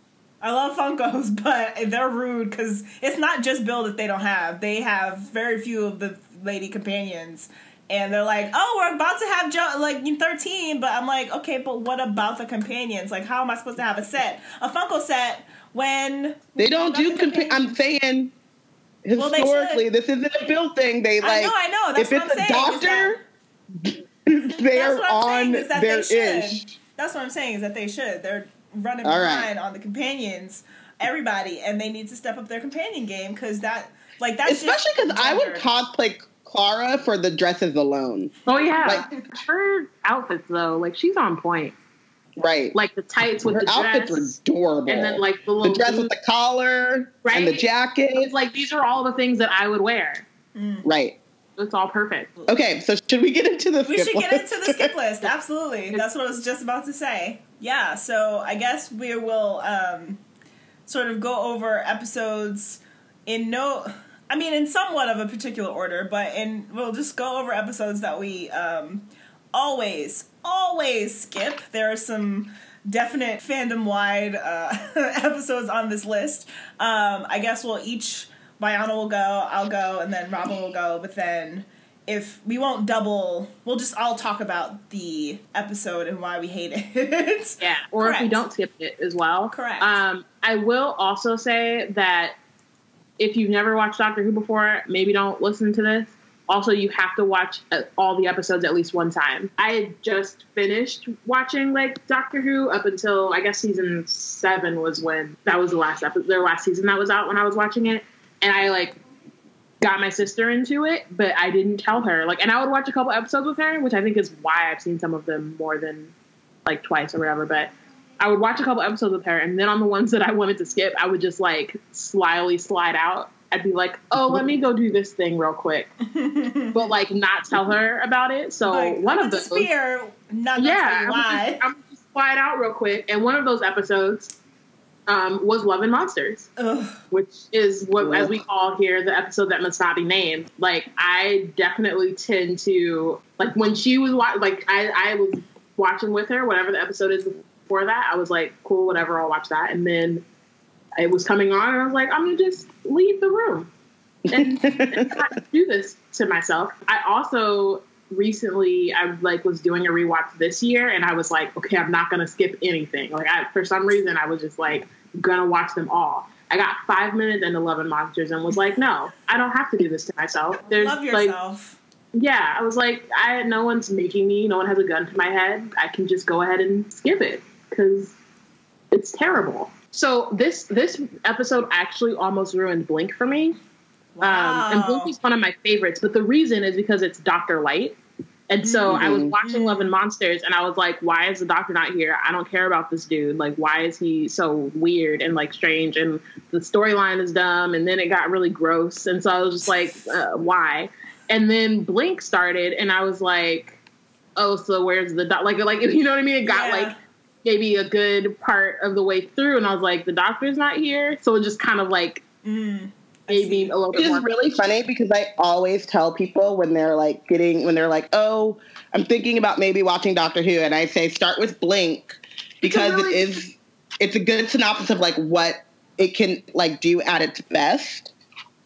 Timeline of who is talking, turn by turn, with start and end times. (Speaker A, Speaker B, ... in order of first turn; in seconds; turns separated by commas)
Speaker A: 0.4-17.8, Speaker B: 16.6-18.3, Speaker B: 19.1-23.2, Speaker A: 19.2-19.8, Speaker A: 21.2-23.2, Speaker B: 23.8-26.8, Speaker A: 24.7-35.7, Speaker B: 29.0-29.5, Speaker B: 34.5-38.3, Speaker C: 38.5-41.8, Speaker B: 42.4-42.8, Speaker C: 42.7-44.3, Speaker B: 43.5-48.3, Speaker C: 44.9-46.1, Speaker C: 47.2-50.2, Speaker A: 50.5-50.9, Speaker B: 50.8-51.2, Speaker C: 51.6-52.3, Speaker B: 52.5-54.9, Speaker A: 53.9-60.2, Speaker A: 60.9-88.4, Speaker C: 87.6-92.4, Speaker A: 89.5-90.0, Speaker C: 93.2-109.0, Speaker C: 109.8-116.1, Speaker C: 116.7-125.9, Speaker A: 126.1-126.8, Speaker C: 126.7-129.7, Speaker A: 128.7-131.6, Speaker C: 130.6-134.3, Speaker C: 135.1-136.5, Speaker A: 136.6-137.0, Speaker C: 137.1-150.2, Speaker B: 138.0-138.4, Speaker C: 151.0-153.7, Speaker B: 154.3-155.2, Speaker C: 154.3-171.3, Speaker A: 170.7-171.8, Speaker C: 172.1-178.1, Speaker C: 178.9-183.6, Speaker A: 184.2-185.1, Speaker C: 184.2-188.0, Speaker C: 188.5-203.8, Speaker A: 188.6-189.9, Speaker B: 188.9-189.3, Speaker C: 204.4-206.9, Speaker A: 206.5-207.0, Speaker C: 207.4-212.2, Speaker A: 212.4-213.7, Speaker C: 213.3-214.3, Speaker B: 213.9-228.1, Speaker C: 222.6-223.4